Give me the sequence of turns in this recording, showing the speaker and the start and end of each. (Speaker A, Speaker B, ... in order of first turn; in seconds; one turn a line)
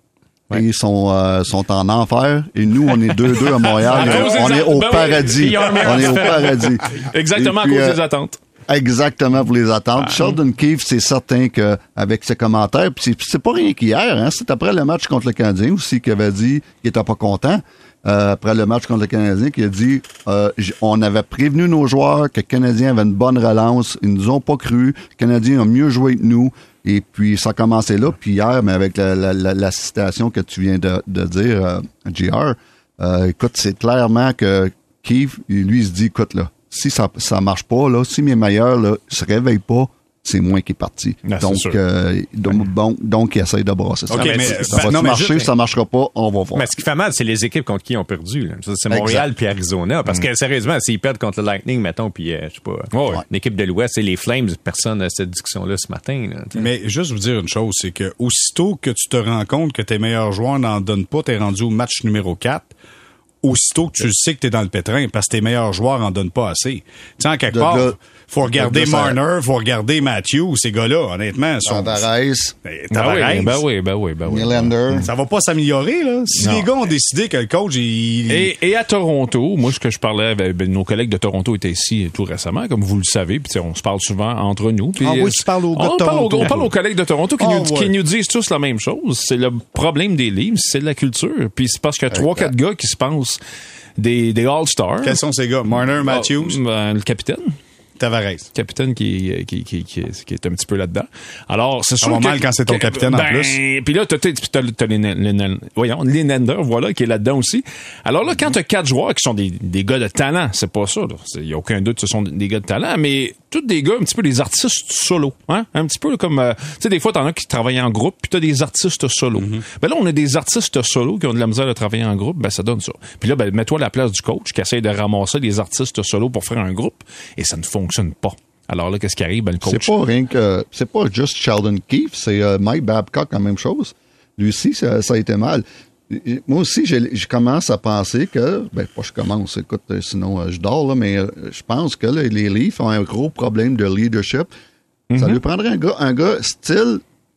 Speaker A: 0.5-8.0
Speaker B: 3.8-8.4
Speaker C: 3.8-6.7
Speaker A: 8.7-46.7
Speaker B: 41.2-41.8
Speaker D: 44.1-45.3
Speaker C: 44.1-45.5
Speaker C: 46.5-56.6
Speaker A: 48.9-49.2
Speaker B: 52.9-53.2
Speaker D: 56.5-62.7
Speaker D: 63.4-72.0
Speaker A: 67.5-69.2
Speaker A: 71.6-72.5
Speaker D: 72.6-73.6
Speaker B: 72.9-75.1
Speaker A: 74.2-75.1
Speaker D: 75.0-78.5
Speaker B: 76.4-76.7
Speaker B: 78.3-93.4
Speaker D: 85.0-86.7
Speaker D: 87.4-87.9
Speaker A: 92.1-92.5
Speaker B: 94.0-95.2
Speaker D: 95.0-96.6
Speaker B: 96.0-97.6
Speaker D: 98.0-98.5
Speaker B: 98.5-129.9
Speaker D: 102.0-103.5
Speaker D: 119.4-119.6
Speaker A: 129.6-144.5
Speaker B: 145.1-145.4
Speaker A: 145.1-147.0